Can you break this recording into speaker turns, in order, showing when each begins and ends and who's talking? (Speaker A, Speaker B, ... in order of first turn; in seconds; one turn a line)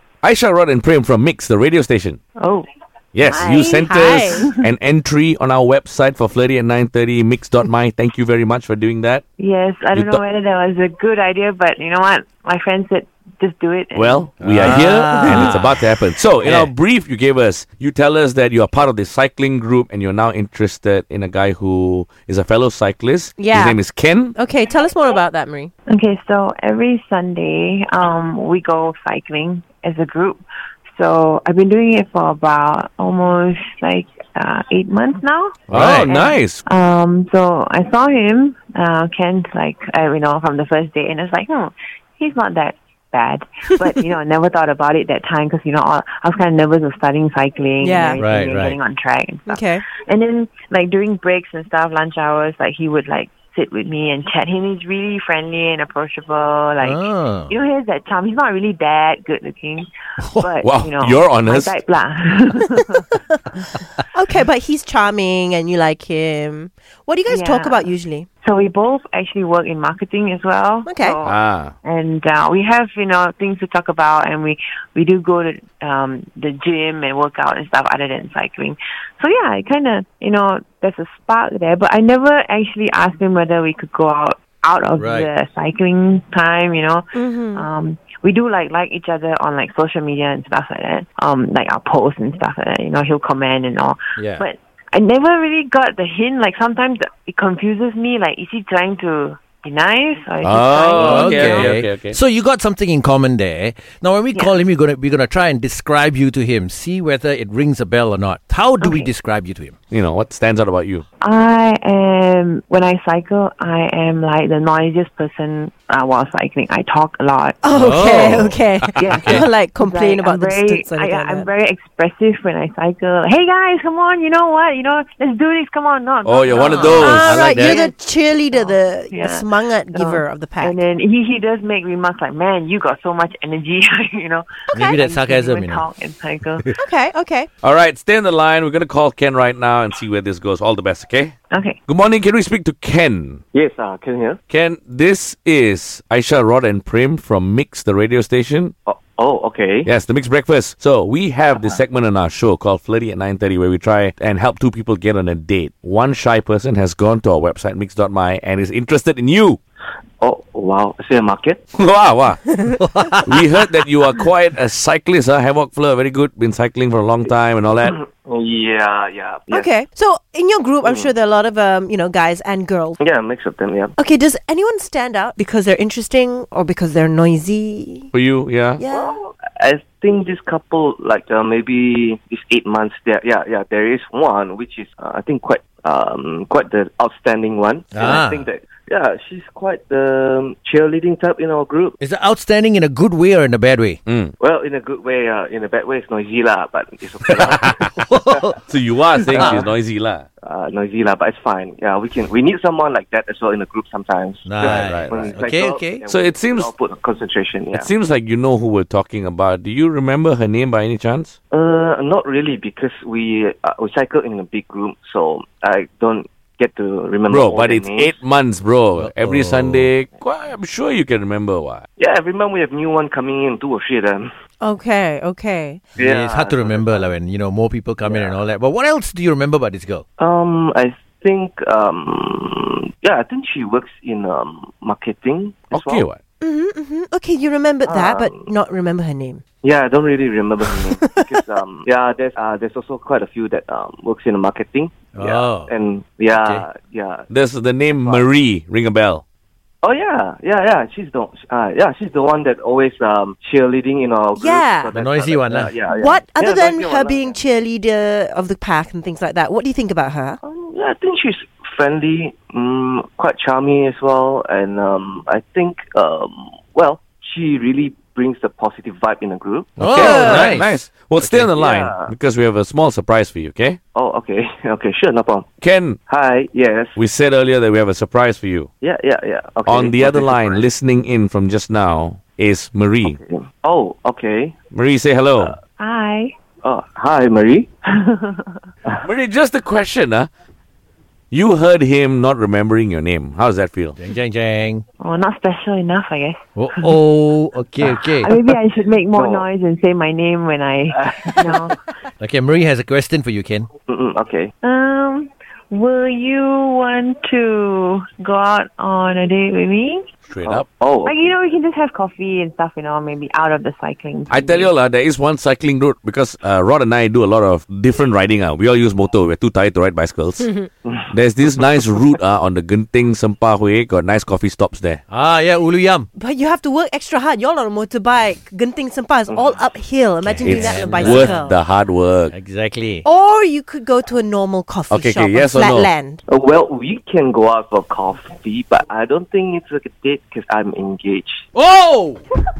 Speaker A: 0.2-2.2
Speaker B: 2.4-2.6
Speaker A: 3.1-9.2
Speaker C: 3.2-4.5
Speaker B: 4.2-4.5
Speaker B: 9.4-15.6
Speaker A: 9.9-10.2
Speaker A: 13.9-24.4
Speaker D: 14.4-16.7
Speaker C: 23.4-23.8
Speaker C: 24.3-25.7
Speaker B: 25.9-30.4
Speaker B: 30.9-63.1
Speaker D: 35.7-36.1
Speaker A: 35.7-36.6
Speaker C: 47.8-48.2
Speaker D: 48.2-48.8
Speaker C: 49.5-49.8
Speaker D: 56.8-57.5
Speaker D: 60.2-60.5
Speaker A: 60.6-61.8
Speaker C: 64.1-68.3
Speaker B: 67.3-67.9
Speaker B: 68.4-101.8
Speaker C: 70.8-71.2
Speaker A: 71.2-71.7
Speaker D: 85.0-85.3
Speaker C: 87.1-87.7
Speaker D: 94.2-94.4
Speaker A: 100.4-102.2
Speaker D: 101.0-109.8
Speaker B: 108.8-109.1
Speaker A: 109.9-111.0
Speaker B: 111.2-127.9
Speaker C: 117.6-121.5
Speaker D: 117.7-118.5
Speaker A: 118.8-119.1
Speaker D: 119.1-119.4
Speaker A: 126.2-127.3
Speaker C: 126.6-130.8
Speaker D: 126.8-127.8
Speaker B: 128.5-136.7
Speaker C: 134.7-135.0
Speaker D: 134.7-135.8
Speaker C: 136.8-137.5
Speaker A: 137.6-143.4
Speaker B: 141.5-141.8
Speaker E: 143.5-144.4
Speaker A: 144.5-148.7
Speaker E: 148.9-149.9
Speaker A: 149.8-159.6
Speaker E: 160.2-161.6
Speaker A: 161.7-162.4
Speaker D: 162.7-163.7
Speaker A: 163.2-167.9
Speaker E: 167.8-169.7
Speaker C: 169.5-173.0
Speaker E: 170.8-171.1
Speaker E: 173.0-173.9
Speaker C: 174.0-178.1
Speaker A: 178.1-178.8
Speaker C: 178.8-179.2
Speaker E: 178.9-192.0
Speaker D: 187.9-188.4
Speaker D: 192.0-194.0
Speaker A: 194.1-194.3
Speaker E: 194.4-197.9
Speaker A: 197.3-197.6
Speaker D: 197.9-198.6
Speaker A: 198.7-200.2
Speaker E: 199.2-199.7
Speaker D: 199.3-199.5
Speaker E: 200.4-207.9
Speaker D: 204.4-206.0
Speaker A: 204.6-205.4
Speaker A: 206.1-206.7
Speaker A: 207.7-211.3
Speaker E: 211.5-218.2
Speaker A: 217.3-221.8
Speaker D: 219.0-219.9
Speaker E: 222.0-224.3
Speaker C: 224.6-225.8
Speaker E: 226.0-227.1
Speaker D: 226.0-230.0
Speaker E: 228.0-228.4
Speaker E: 230.2-236.1
Speaker A: 235.7-236.2
Speaker C: 236.4-239.4
Speaker E: 237.8-238.5
Speaker E: 239.6-247.3
Speaker C: 240.9-241.4
Speaker D: 245.1-245.7
Speaker D: 246.4-246.6
Speaker A: 247.3-249.2
Speaker E: 247.9-248.3
Speaker E: 249.8-257.4
Speaker C: 254.3-254.9
Speaker D: 254.9-255.7
Speaker C: 255.9-260.4
Speaker E: 260.4-270.6
Speaker D: 269.8-270.7
Speaker A: 269.8-273.8
Speaker C: 270.0-270.5
Speaker E: 271.2-272.1
Speaker E: 273.9-275.5
Speaker A: 275.6-276.0
Speaker E: 276.1-277.0
Speaker A: 276.9-278.7
Speaker E: 278.8-280.7
Speaker A: 279.6-283.2
Speaker E: 283.0-284.6
Speaker A: 284.7-285.5
Speaker B: 285.8-286.3
Speaker E: 286.6-287.7
Speaker B: 287.9-288.6
Speaker A: 289.0-290.3
Speaker A: 291.3-294.0
Speaker D: 294.0-294.8
Speaker B: 295.0-296.9
Speaker D: 296.6-298.3
Speaker B: 298.2-301.8
Speaker E: 299.1-299.4
Speaker E: 301.0-301.7
Speaker D: 302.2-303.7
Speaker E: 303.9-304.5
Speaker B: 304.6-310.0
Speaker A: 310.3-310.7
Speaker E: 310.4-311.1
Speaker B: 311.0-314.7
Speaker A: 314.3-320.5
Speaker C: 320.4-320.7
Speaker E: 320.9-321.1
Speaker A: 321.1-325.0
Speaker D: 325.1-326.1
Speaker C: 326.1-331.6
Speaker E: 329.3-329.6
Speaker D: 330.2-331.4
Speaker A: 330.4-332.3
Speaker D: 332.3-333.1
Speaker C: 333.0-336.2
Speaker A: 334.9-335.9
Speaker E: 336.3-341.4
Speaker D: 341.5-342.2